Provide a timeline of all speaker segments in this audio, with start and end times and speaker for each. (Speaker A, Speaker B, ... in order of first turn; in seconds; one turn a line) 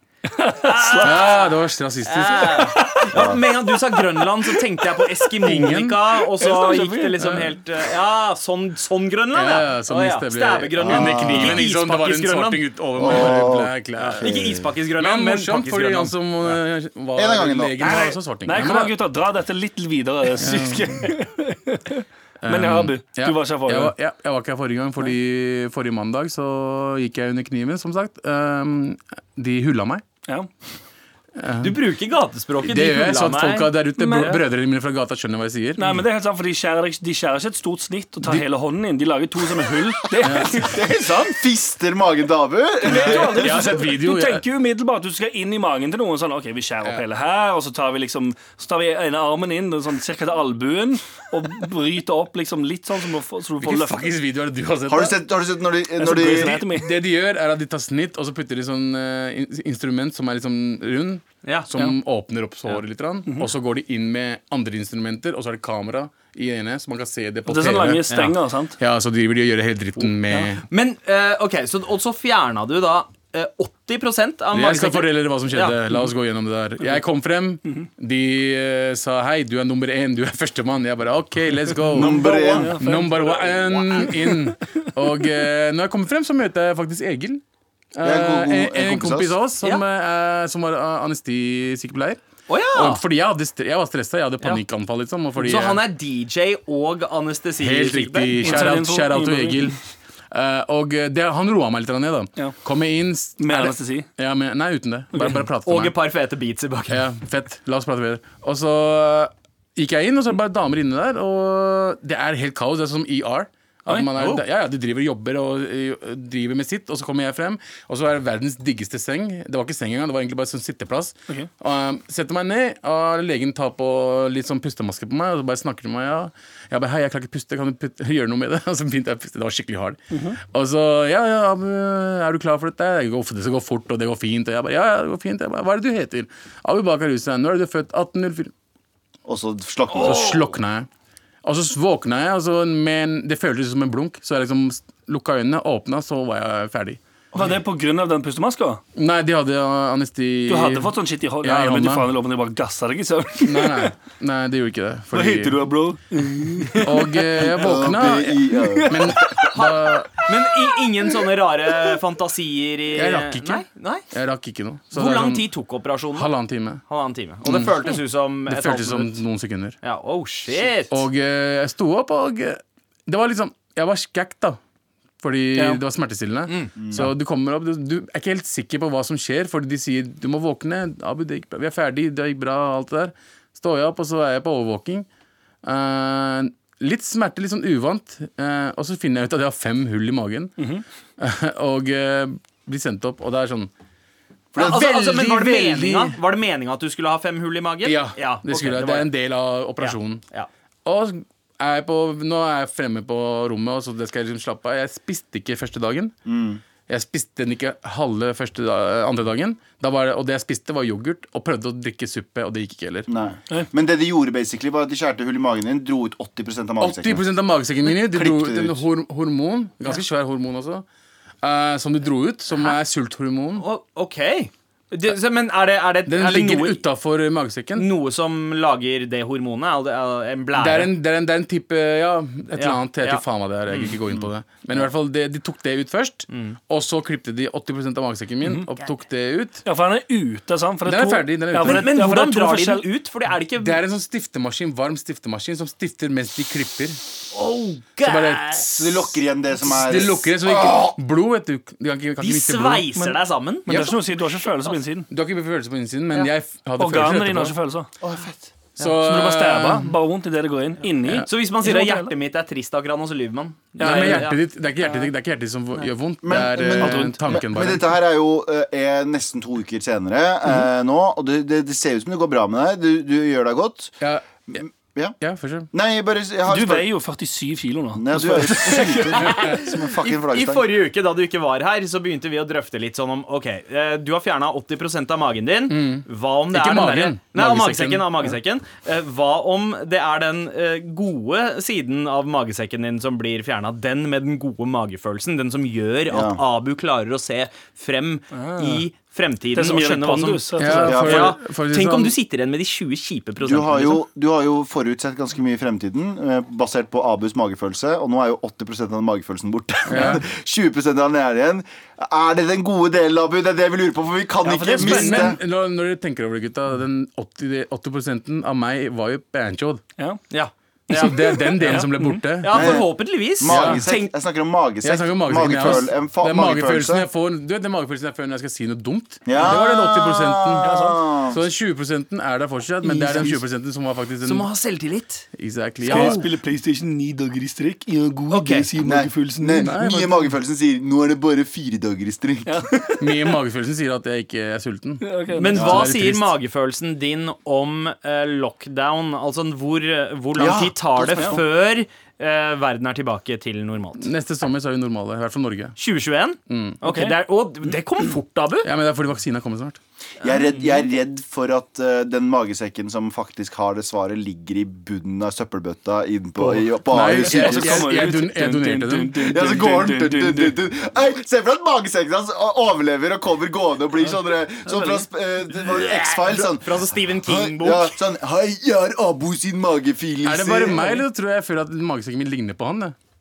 Speaker A: 0.3-1.4
Speaker B: 0.6-1.5
Speaker C: 1.0-2.8
Speaker B: 2.0-13.3
Speaker A: 2.6-3.5
Speaker D: 3.1-3.4
Speaker A: 4.2-4.6
Speaker C: 5.4-6.0
Speaker A: 6.4-7.2
Speaker C: 7.2-7.5
Speaker C: 9.3-18.9
Speaker D: 10.8-11.6
Speaker D: 13.0-14.7
Speaker B: 14.0-16.1
Speaker D: 17.2-18.0
Speaker A: 17.8-23.9
Speaker C: 20.4-21.1
Speaker C: 22.4-30.0
Speaker C: 31.4-31.8
Speaker B: 31.6-34.4
Speaker C: 32.6-36.0
Speaker A: 34.0-34.4
Speaker A: 35.8-41.4
Speaker C: 40.2-40.6
Speaker D: 40.5-43.6
Speaker A: 42.8-54.0
Speaker C: 42.9-44.4
Speaker C: 53.6-55.2
Speaker D: 54.9-56.6
Speaker A: 56.0-56.9
Speaker C: 56.5-70.6
Speaker A: 67.5-68.8
Speaker A: 70.3-70.5
Speaker B: 70.7-75.8
Speaker C: 74.5-87.4
Speaker D: 81.9-82.8
Speaker A: 82.0-84.5
Speaker B: 82.2-82.6
Speaker C: 88.0-92.2
Speaker D: 88.0-89.4
Speaker B: 92.5-93.0
Speaker C: 92.7-95.8
Speaker B: 95.4-98.7
Speaker C: 97.6-99.8
Speaker A: 98.4-99.7
Speaker C: 100.3-106.0
Speaker A: 103.4-104.1
Speaker A: 105.1-105.4
Speaker B: 105.7-107.0
Speaker C: 106.9-138.5
Speaker B: 114.1-114.4
Speaker A: 130.1-130.4
Speaker D: 139.3-140.4
Speaker C: 140.0-140.9
Speaker C: 141.4-147.0
Speaker A: 147.3-148.8
Speaker C: 149.0-152.1
Speaker A: 150.5-153.9
Speaker C: 153.4-155.6
Speaker A: 155.1-157.4
Speaker C: 156.8-160.1
Speaker D: 157.5-159.2
Speaker A: 158.6-159.5
Speaker B: 159.5-164.0
Speaker C: 162.9-165.5
Speaker B: 164.9-166.3
Speaker C: 166.2-166.8
Speaker B: 166.9-169.2
Speaker C: 167.4-169.8
Speaker B: 169.8-171.0
Speaker C: 170.9-174.6
Speaker C: 175.2-185.1
Speaker A: 175.6-175.8
Speaker B: 176.5-176.7
Speaker D: 176.8-177.1
Speaker C: 185.6-190.5
Speaker A: 190.6-190.8
Speaker C: 191.2-193.7
Speaker D: 194.5-194.8
Speaker C: 194.6-196.2
Speaker B: 194.6-199.1
Speaker C: 197.8-200.2
Speaker B: 199.8-200.5
Speaker C: 200.8-206.1
Speaker D: 206.3-206.6
Speaker C: 206.9-213.1
Speaker D: 213.1-217.2
Speaker C: 216.8-220.8
Speaker D: 217.9-218.8
Speaker C: 221.4-223.7
Speaker B: 223.6-226.8
Speaker C: 226.1-227.9
Speaker B: 227.8-230.9
Speaker C: 230.6-239.6
Speaker B: 232.6-234.0
Speaker B: 236.3-236.6
Speaker A: 239.7-242.9
Speaker C: 240.9-241.9
Speaker B: 241.6-243.8
Speaker C: 243.6-247.0
Speaker B: 247.3-248.7
Speaker C: 248.0-249.1
Speaker D: 248.7-250.9
Speaker C: 249.6-252.9
Speaker B: 252.2-253.9
Speaker A: 252.9-255.1
Speaker C: 253.7-253.9
Speaker C: 255.1-257.6
Speaker A: 256.8-257.9
Speaker D: 258.0-258.5
Speaker C: 258.8-259.9
Speaker A: 259.0-262.1
Speaker B: 261.3-264.4
Speaker A: 263.8-264.3
Speaker C: 263.8-267.9
Speaker D: 266.2-274.0
Speaker A: 266.8-267.4
Speaker C: 274.0-274.6
Speaker D: 274.5-275.2
Speaker C: 275.2-275.7
Speaker D: 275.7-276.9
Speaker A: 276.5-279.2
Speaker D: 277.9-280.7
Speaker C: 279.3-279.6
Speaker B: 279.3-304.0
Speaker C: 285.7-288.3
Speaker D: 296.1-296.4
Speaker A: 298.3-298.9
Speaker A: 299.5-301.2
Speaker C: 300.6-302.2
Speaker D: 300.9-301.4
Speaker D: 303.4-315.4
Speaker C: 309.9-310.2
Speaker A: 314.4-315.4
Speaker C: 314.8-319.8
Speaker B: 320.3-321.9
Speaker C: 320.9-322.9
Speaker A: 321.6-322.2
Speaker B: 322.4-324.1
Speaker D: 322.5-327.1
Speaker C: 323.4-323.8
Speaker C: 324.8-330.7
Speaker D: 329.3-331.4
Speaker A: 330.6-331.0
Speaker C: 331.3-334.5
Speaker A: 332.8-333.4
Speaker B: 334.2-335.3
Speaker C: 335.4-336.2
Speaker A: 335.8-339.8
Speaker B: 335.9-336.2
Speaker B: 338.3-338.7
Speaker D: 338.8-342.7
Speaker C: 339.6-340.2
Speaker A: 342.5-343.3
Speaker C: 343.0-346.4
Speaker A: 345.0-345.7
Speaker B: 345.3-354.1
Speaker D: 345.6-345.9
Speaker D: 350.4-351.4
Speaker C: 354.0-355.8
Speaker B: 355.8-358.7
Speaker C: 356.5-356.8
Speaker A: 356.8-357.2
Speaker C: 358.6-359.8
Speaker D: 360.2-368.0
Speaker A: 366.4-370.6
Speaker C: 366.9-369.2
Speaker D: 369.2-381.0
Speaker A: 374.6-375.1
Speaker B: 375.9-377.9
Speaker C: 380.2-382.9